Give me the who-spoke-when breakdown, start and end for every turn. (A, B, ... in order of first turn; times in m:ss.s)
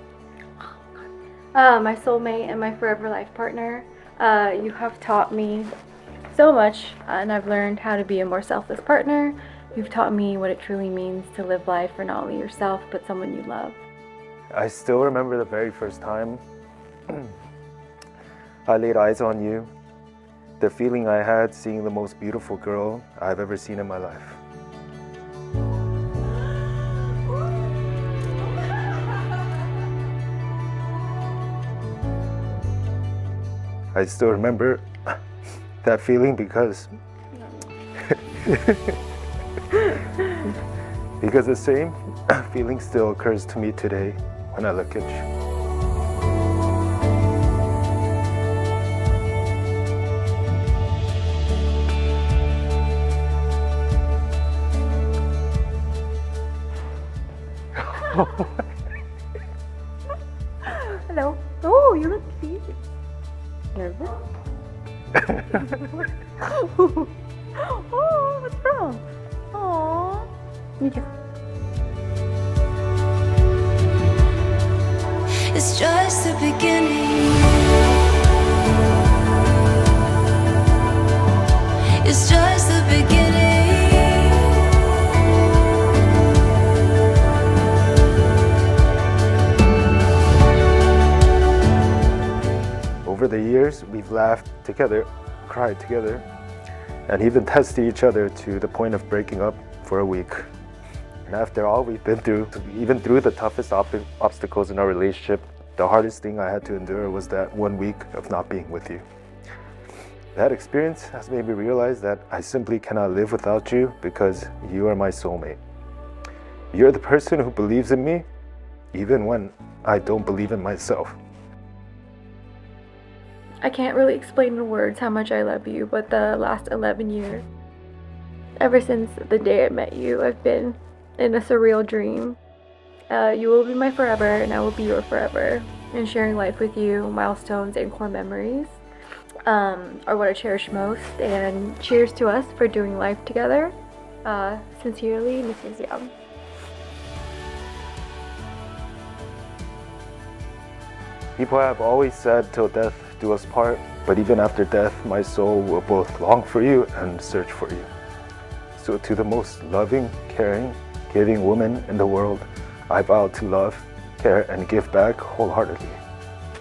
0:00.6-0:01.0 A
0:01.5-0:05.7 A
0:06.3-0:13.8 A
0:14.5-0:16.4 B
0:18.6-0:19.7 B
0:20.6-0:24.4 B
0:33.9-0:35.2 B
0:35.8-0:36.9 B
0:38.1-0:39.0 B
0:41.2-0:45.2 B
0:57.9-0:58.6 B
1:00.7-1:02.8 A
1:03.7-1:04.2 A
1:06.4-1:11.1 A
1:15.5-1:17.8 C
1:22.0-1:24.6 C
1:33.0-1:36.2 B
1:37.1-1:40.5 B
1:41.2-1:49.0 B
1:50.3-1:55.6 B
1:56.7-1:58.2 B
1:58.9-2:01.2 B
2:03.6-2:07.5 A
2:08.6-2:12.4 A
2:13.1-2:18.8 A
2:19.4-2:26.1 A
2:31.4-2:37.9 B
2:38.8-2:46.0 B